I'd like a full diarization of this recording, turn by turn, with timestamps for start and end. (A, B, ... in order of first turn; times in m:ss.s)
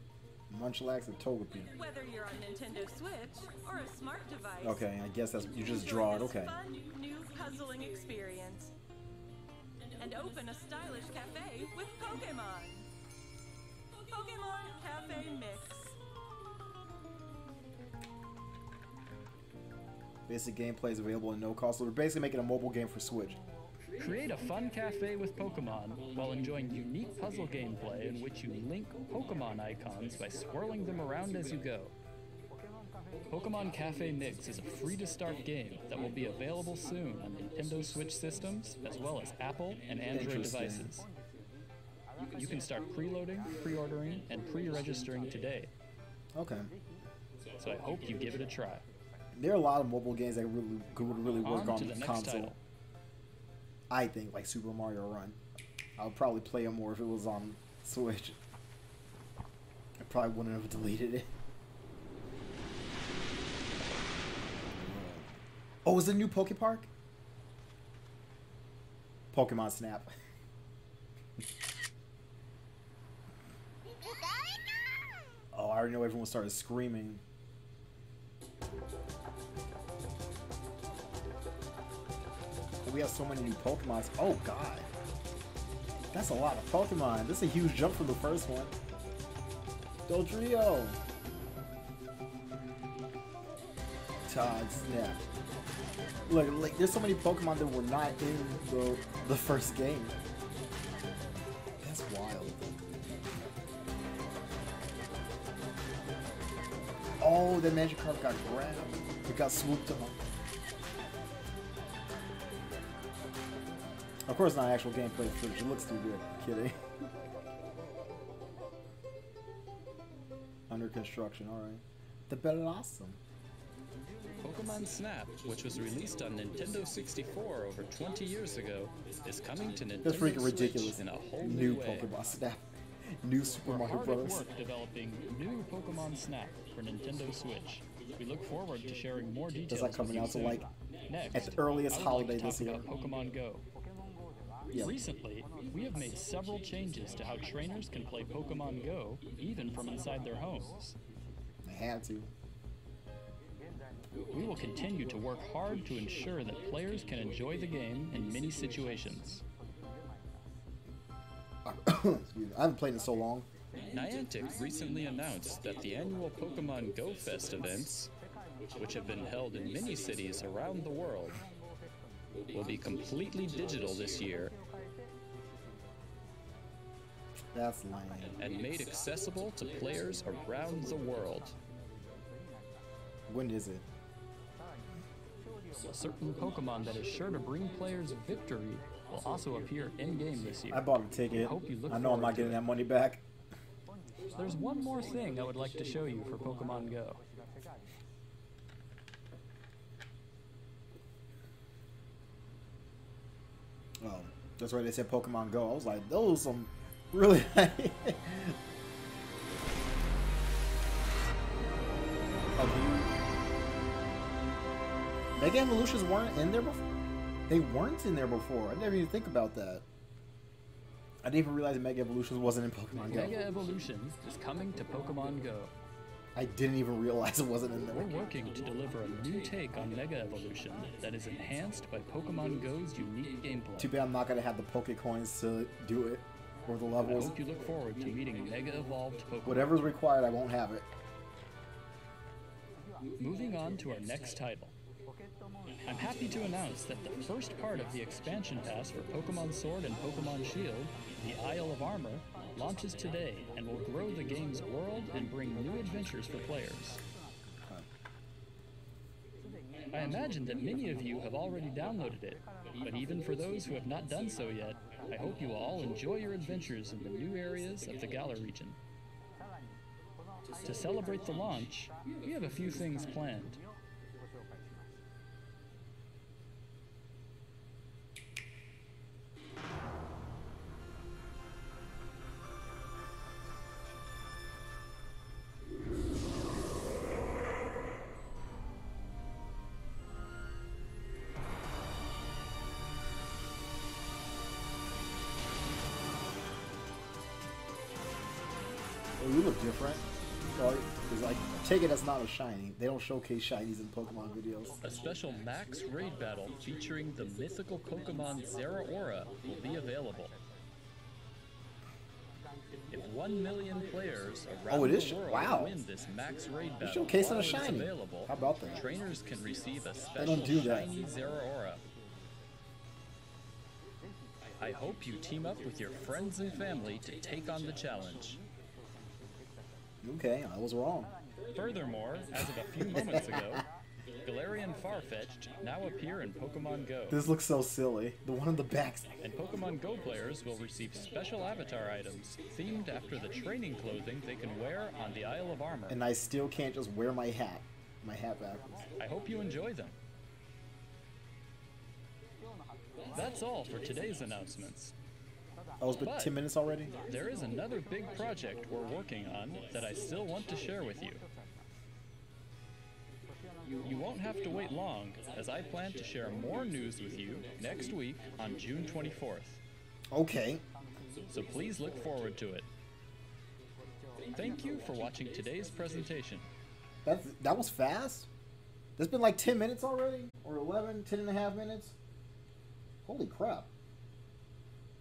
0:00.5-0:01.7 A
0:01.7-0:04.9 B
0:04.6-0:06.6 A
0:05.5-0:08.7 B
0:10.0-0:12.9 B
0:13.9-0:16.0 B
0:20.3-0:23.4 A
0:24.0-0:31.9 C
0:33.3-0:41.0 C
0:40.1-0:40.9 A
0:42.3-0:45.7 C
0:46.3-0:46.7 A
0:47.6-0:48.8 C
0:49.3-0:52.5 A
0:51.4-0:52.6 C
0:53.9-0:55.4 A
0:56.0-0:58.4 A
1:00.0-1:01.3 A
1:04.6-1:05.3 A
1:05.8-1:06.9 A
1:09.3-1:10.1 A
1:15.5-1:17.2 A
1:22.8-1:24.9 A
1:26.1-1:28.8 A
1:30.1-1:31.0 A
1:34.3-1:35.2 A
1:36.3-1:40.2 A
1:41.8-1:42.8 A
1:47.2-1:50.2 A
1:54.3-1:56.7 A
2:00.7-2:03.2 A
2:04.4-2:12.1 C
2:10.0-2:12.6 A
2:13.2-2:14.4 A
2:13.6-2:23.6 C
2:19.7-2:20.6 A
2:21.3-2:22.9 A
2:24.7-2:25.0 A
2:24.8-2:30.9 C
2:31.6-2:32.3 A
2:34.3-2:39.4 C
2:41.6-2:43.5 A
2:43.9-2:48.1 C
2:48.8-2:51.5 C
2:52.5-2:54.5 C
2:57.5-2:58.4 A
2:58.4-3:01.5 C
3:03.3-3:03.8 A
3:05.8-3:12.6 C
3:10.7-3:13.2 A
3:14.3-3:17.2 C
3:24.0-3:28.6 A
3:32.6-3:33.1 A
3:35.4-3:36.8 A
3:37.5-3:39.8 A
3:41.2-3:43.4 A
3:43.1-3:45.7 C
3:46.4-3:48.1 A
3:47.9-3:53.9 C
3:53.8-3:57.4 A
3:57.0-3:59.8 C
3:59.4-4:00.9 A
4:03.2-4:04.7 C
4:05.8-4:17.0 C
4:19.9-4:28.8 C
4:30.6-4:33.6 C
4:59.2-5:00.0 A
5:00.6-5:04.8 A
5:04.8-5:10.3 C
5:12.9-5:21.8 C
5:14.7-5:15.8 A
5:16.8-5:18.8 A
5:20.2-5:20.9 A
5:24.6-5:28.4 C
5:30.0-5:31.1 A
5:31.5-5:33.6 C
5:32.8-5:33.6 A
5:34.2-5:37.2 C
5:37.1-5:39.1 A
5:39.2-5:46.0 C
5:45.9-5:48.9 A
5:49.0-5:49.9 C
5:53.1-5:54.9 C
5:55.8-5:56.9 A
5:56.0-5:56.4 C
5:57.1-6:01.2 C
6:03.8-6:09.6 C
6:10.1-6:10.6 A
6:11.3-6:12.7 C
6:14.3-6:16.5 C
6:17.0-6:18.3 A
6:19.0-6:21.9 A
6:23.0-6:23.7 A